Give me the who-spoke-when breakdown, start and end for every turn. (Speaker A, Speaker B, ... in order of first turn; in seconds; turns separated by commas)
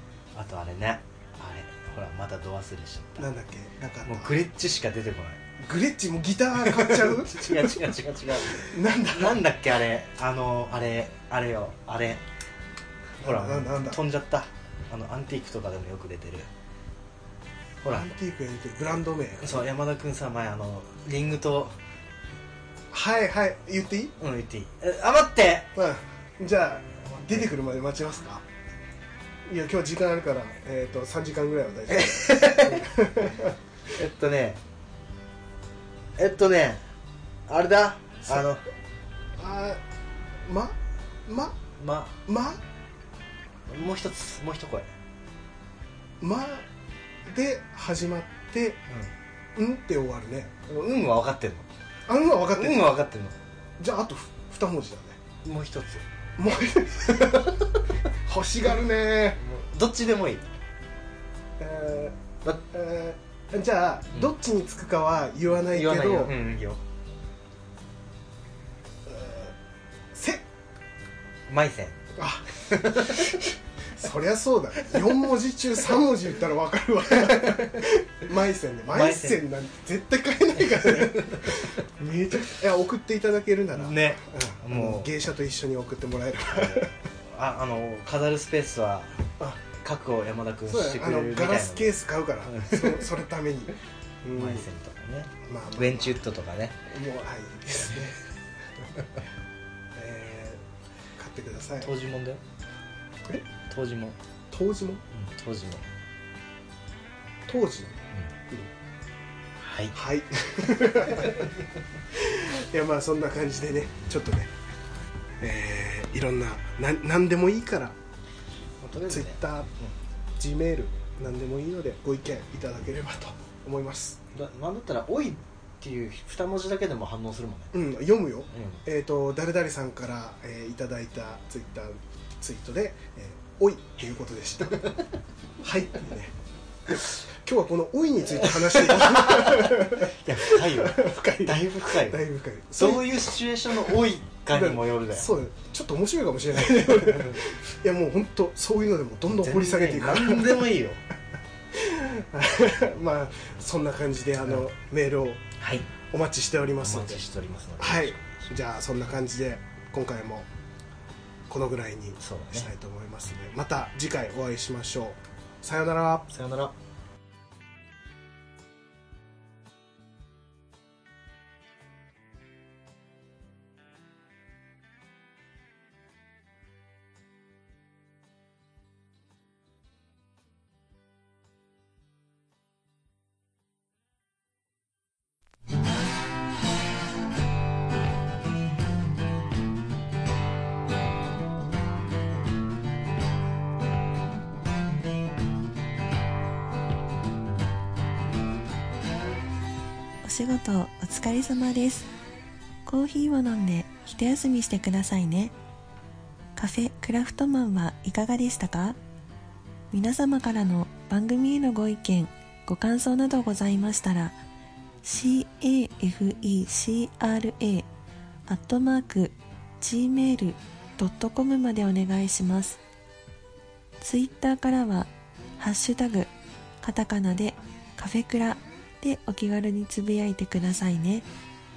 Speaker A: 0.3-3.3, Speaker B: 3.2-4.4, Speaker A: 4.0-5.4, Speaker B: 5.6-7.9, Speaker A: 6.6-12.2, Speaker B: 8.5-9.5, Speaker B: 13.2-14.0, Speaker A: 13.2-16.5, Speaker A: 17.8-18.1, Speaker B: 17.9-19.6, Speaker A: 19.4-21.8, Speaker B: 22.9-24.1, Speaker A: 24.2-25.8, Speaker B: 25.7-28.4, Speaker B: 29.4-33.5, Speaker A: 31.9-33.0, Speaker A: 33.9-34.6, Speaker A: 36.2-36.8, Speaker A: 37.5-38.6, Speaker B: 39.4-39.8, Speaker B: 40.4-41.6, Speaker A: 41.8-42.2, Speaker B: 42.2-42.6, Speaker A: 43.7-44.9, Speaker B: 46.2-46.7, Speaker B: 47.2-48.8, Speaker B: 49.5-50.5, Speaker A: 50.7-51.7, Speaker B: 52.1-52.9, Speaker A: 52.5-53.4, Speaker B: 53.8-55.2, Speaker A: 55.4-56.0, Speaker B: 56.4-59.4, Speaker A: 59.4-60.5, Speaker B: 61.6-62.2, Speaker B: 62.7-66.3, Speaker A: 65.7-66.8, Speaker B: 69.1-69.5, Speaker B: 70.1-70.4, Speaker A: 71.5-72.0, Speaker B: 72.2-86.9, Speaker A: 72.7-73.4, Speaker A: 78.9-79.4, Speaker A: 80.7-81.7, Speaker A: 83.7-85.1, Speaker A: 86.5-93.1, Speaker B: 90.7-94.7, Speaker A: 94.3-96.8, Speaker B: 95.4-96.2, Speaker B: 96.9-98.2, Speaker B: 98.8-99.0, Speaker B: 99.9-100.6, Speaker B: 101.2-101.9, Speaker A: 101.8-102.4, Speaker A: 103.7-104.2, Speaker B: 104.5-105.0, Speaker A: 105.1-105.9, Speaker B: 107.5-108.7, Speaker A: 109.6-110.0, Speaker B: 109.9-111.5, Speaker B: 112.1-114.5, Speaker B: 115.4-118.0, Speaker A: 118.8-119.9, Speaker B: 119.1-119.7, Speaker B: 120.4-124.2, Speaker A: 124.3-127.9, Speaker B: 127.7-134.9, Speaker A: 128.5-128.8, Speaker B: 135.6-136.3, Speaker B: 136.8-143.9, Speaker A: 138.3-142.2, Speaker A: 142.8-145.3, Speaker B: 144.5-150.7, Speaker A: 147.0-147.4, Speaker A: 149.3-151.0, Speaker B: 151.7-155.4, Speaker A: 155.6-155.9, Speaker B: 156.0-157.2, Speaker A: 156.8-158.6, Speaker B: 157.8-160.5, Speaker B: 161.5-166.3, Speaker A: 162.2-162.7, Speaker A: 166.3-166.7, Speaker C: 200.2-202.1, Speaker C: 202.8-205.5, Speaker C: 206.6-209.0, Speaker C: 209.9-214.4, Speaker C: 215.0-217.8, Speaker C: 218.5-222.8, Speaker C: 224.0-226.3, Speaker C: 226.8-231.2